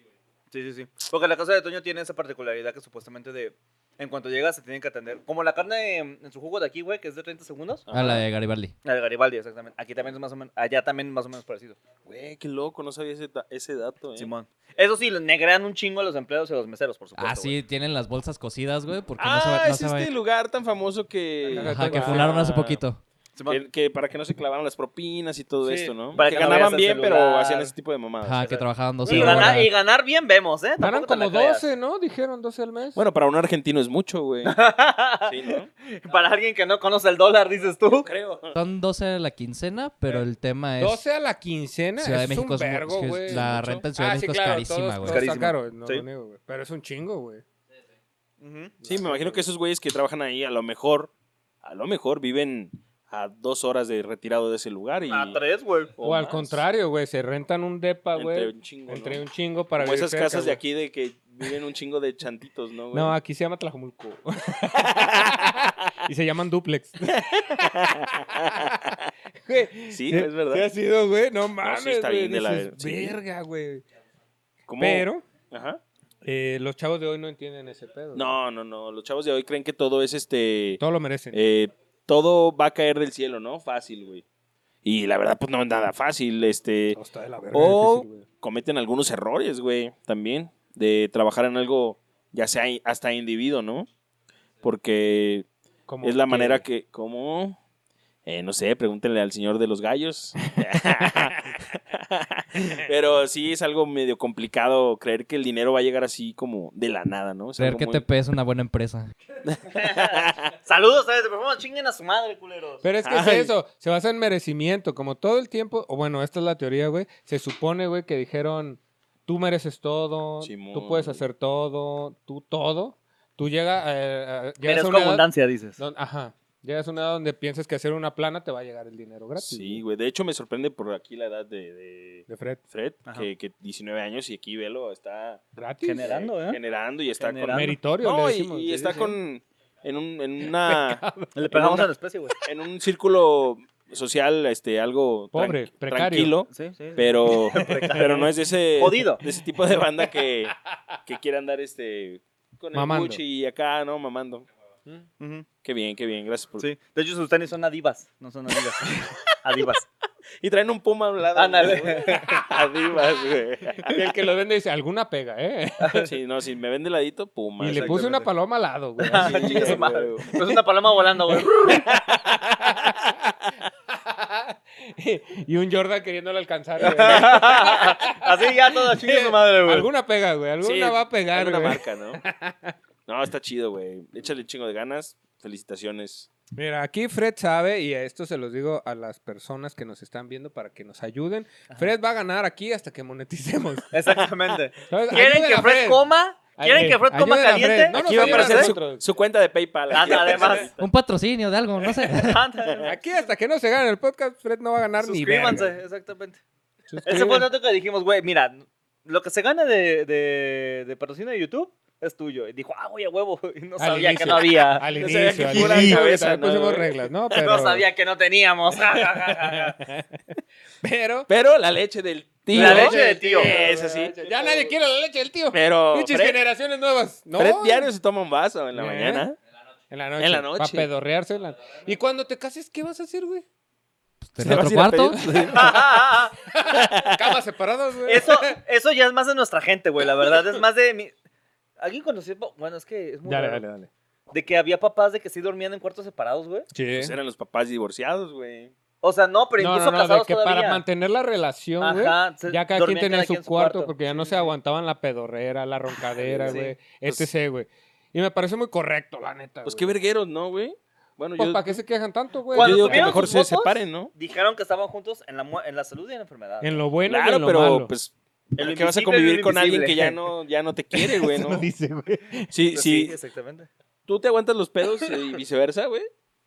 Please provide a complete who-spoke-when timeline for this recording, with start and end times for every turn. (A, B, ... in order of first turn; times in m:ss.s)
0:00.5-0:07.9 A
0:07.9-0:08.2 B
0:07.9-0:08.7 C
0:08.8-0:11.8 A
0:12.0-0:14.3 B
0:14.2-0:17.6 A
0:17.2-0:20.1 C
0:19.2-0:22.8 B
0:21.5-0:22.5 D
0:21.6-0:23.0 C
0:23.4-0:23.6 A
0:23.5-0:29.6 B
0:25.6-0:26.0 D
0:26.1-0:27.7 A
0:28.2-0:29.7 C
0:28.5-0:31.7 A
0:30.8-0:33.0 D
0:32.9-0:34.6 B
0:34.4-0:38.1 A
0:35.2-0:35.7 B
0:37.9-0:38.6 B
0:38.5-0:41.0 C
0:40.8-0:47.4 D
0:42.0-0:45.3 C
0:43.3-0:43.8 B
0:45.0-0:46.0 A
0:48.4-0:48.7 A
0:48.8-0:49.4 D
0:48.8-0:51.1 B
0:51.6-0:55.4 B
0:55.1-0:55.9 A
0:56.0-0:56.6 B
0:56.0-1:00.6 D
0:58.1-0:59.2 B
0:59.8-1:03.1 B
1:02.9-1:07.7 D
1:04.8-1:05.6 B
1:07.1-1:09.1 B
1:08.5-1:08.9 D
1:09.4-1:13.8 D
1:09.9-1:10.7 B
1:11.6-1:13.2 B
1:14.7-1:15.8 B
1:14.8-1:15.2 D
1:16.2-1:18.3 D
1:18.1-1:20.8 B
1:20.8-1:21.4 D
1:21.3-1:24.2 B
1:24.8-1:27.0 B
1:26.9-1:28.2 D
1:27.5-1:33.9 B
1:34.6-1:35.5 B
1:35.9-1:36.6 D
1:36.0-1:37.6 B
1:38.2-1:48.0 B
1:47.6-1:49.1 C
1:49.4-1:50.5 B
1:49.7-1:52.8 A
1:52.8-2:05.2 D
1:53.0-1:53.5 B
2:00.4-2:01.2 B
2:04.6-2:05.8 A
2:05.8-2:09.8 D
2:09.4-2:15.4 B
2:12.3-2:12.6 D
2:15.6-2:16.1 D
2:15.8-2:16.6 A
2:16.0-2:21.9 B
2:17.2-2:17.7 A
2:17.5-2:19.2 D
2:20.5-2:21.3 D
2:21.3-2:22.3 A
2:22.4-2:30.5 B
2:25.3-2:26.3 D
2:26.5-2:29.2 A
2:27.5-2:28.0 D
2:31.0-2:34.4 B
2:32.7-2:33.2 D
2:35.2-2:35.4 A
2:35.6-2:36.6 B
2:36.6-2:38.8 A
2:39.4-2:39.8 A
2:40.4-2:44.0 B
2:41.4-2:42.2 A
2:43.8-2:46.1 D
2:45.8-2:46.1 A
2:46.0-2:48.2 B
2:47.6-2:50.6 D
2:47.6-2:48.3 A
2:49.0-2:51.8 A
2:49.1-2:50.2 B
2:51.3-2:53.1 D
2:51.7-2:53.5 B
2:53.9-3:02.7 D
2:56.8-2:59.9 A
3:00.6-3:02.2 B
3:03.1-3:06.3 B
3:06.5-3:13.9 D
3:13.9-3:18.7 A
3:14.9-3:16.0 D
3:16.6-3:19.0 D
3:17.9-3:20.9 B
3:19.9-3:20.7 A
3:20.8-3:22.4 C
3:22.1-3:22.9 A
3:22.8-3:25.8 D
3:25.0-3:26.4 A
3:26.9-3:27.5 D
3:27.0-3:34.8 A
3:33.8-3:37.8 D
3:34.9-3:37.1 B
3:35.5-3:36.0 A
3:37.3-3:39.8 A
3:38.8-3:41.3 D
3:41.3-3:44.7 B
3:42.5-3:47.9 D
3:42.5-3:43.5 A
3:45.5-3:46.3 B
3:47.4-3:49.4 B
3:48.7-3:49.3 D
3:49.9-3:53.4 D
3:50.2-3:50.9 B
3:54.2-3:55.2 C
3:54.4-3:55.9 B
3:55.3-3:55.8 D
3:55.5-3:56.3 A
3:56.5-3:58.6 D
3:56.6-3:57.4 B
3:58.0-4:01.1 A
4:01.8-4:03.6 A
4:03.2-4:03.9 D
4:04.3-4:06.7 A
4:06.7-4:07.1 D
4:07.0-4:08.7 B
4:09.0-4:10.8 A
4:09.6-4:19.9 D
4:11.8-4:14.3 A
4:16.2-4:17.3 B
4:16.4-4:16.8 A
4:19.6-4:21.8 B
4:21.4-4:23.3 D
4:22.5-4:26.8 A
4:22.5-4:24.1 B
4:26.6-4:27.9 D
4:27.0-4:31.7 B
4:28.6-4:30.2 A
4:30.9-4:32.5 D
4:32.5-4:33.1 B
4:32.7-4:33.7 A
4:34.1-4:36.1 B